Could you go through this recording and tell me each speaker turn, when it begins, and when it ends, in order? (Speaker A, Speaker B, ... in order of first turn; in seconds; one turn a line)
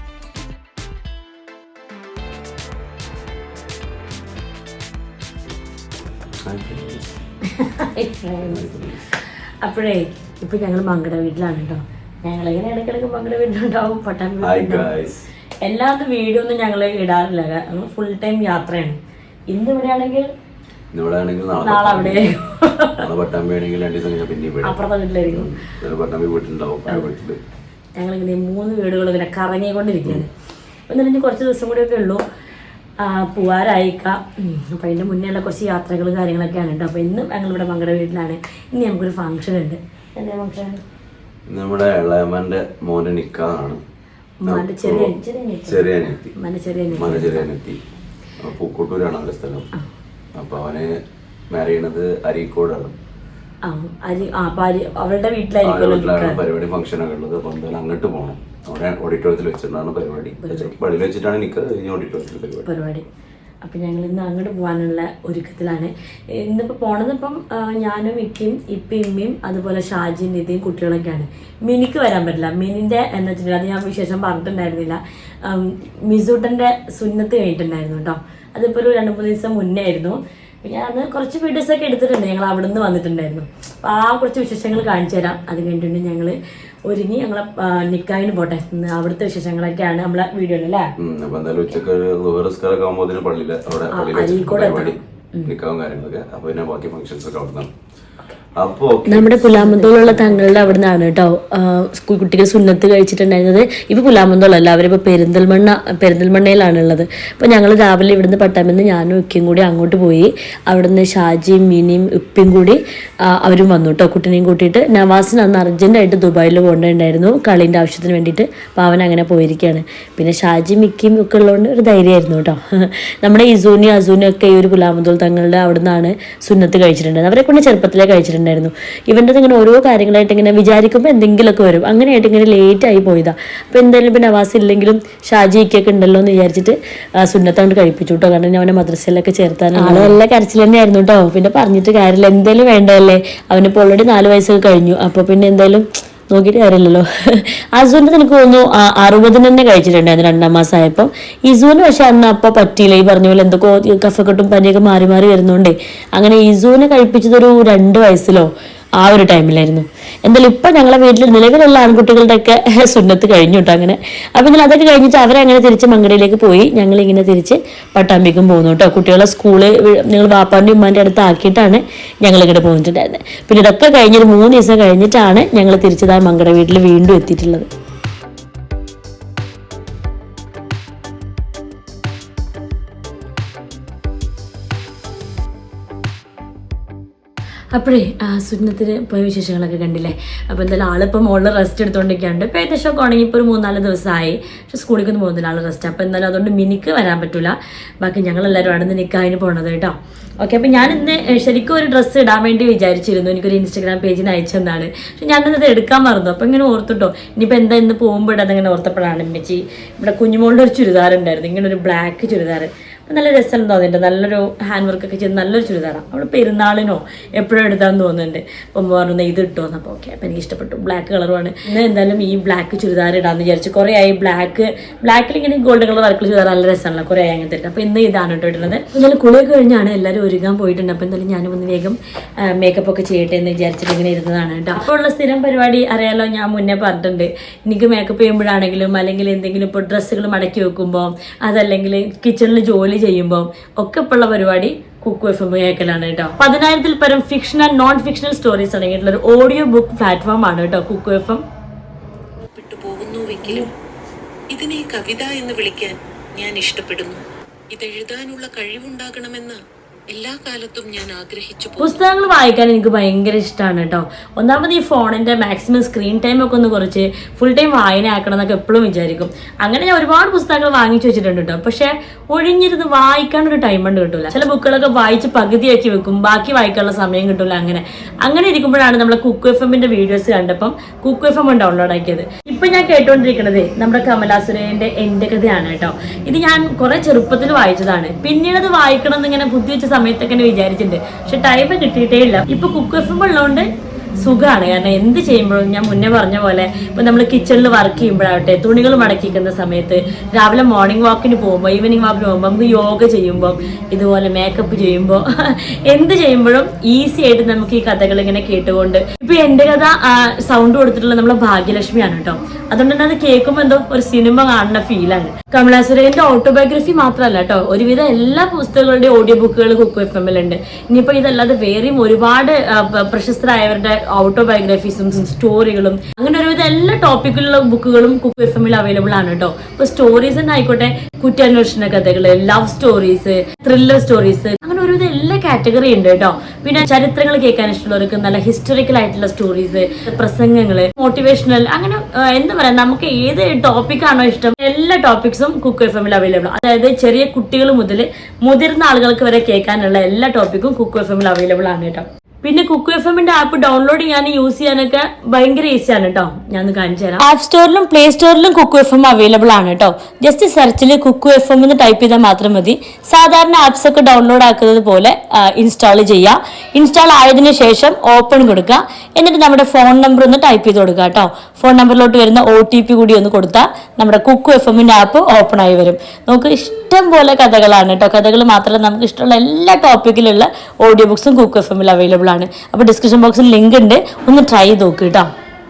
Speaker A: 6.4-7.1
Speaker B: 7.5-8.7
Speaker A: 8.5-9.0
Speaker B: 9.6-14.9
Speaker A: 14.4-15.3
Speaker B: 15.6-19.0
Speaker B: 19.5-20.3
Speaker A: 20.9-22.4
Speaker B: 21.6-23.0
Speaker A: 23.0-27.4
Speaker B: 24.6-25.5
Speaker B: 27.9-30.3
Speaker B: 30.9-32.2
Speaker B: 33.0-40.8
Speaker A: 41.5-43.8
Speaker B: 44.4-47.5
Speaker A: 44.5-45.1
Speaker A: 45.7-46.3
Speaker A: 46.9-47.8
Speaker A: 48.4-49.7
Speaker A: 50.3-51.0
Speaker A: 51.5-53.0
Speaker B: 53.6-56.4
Speaker A: 55.6-62.7
Speaker B: 60.4-60.8
Speaker B: 62.6-63.0
Speaker B: 63.6-90.9
Speaker A: 91.0-97.7
Speaker B: 93.9-95.5
Speaker A: 98.5-100.8
Speaker B: 99.1-177.7
Speaker B: 187.7-251.4
Speaker C: 252.5-253.7
Speaker C: 254.5-262.0
Speaker B: 261.8-385.3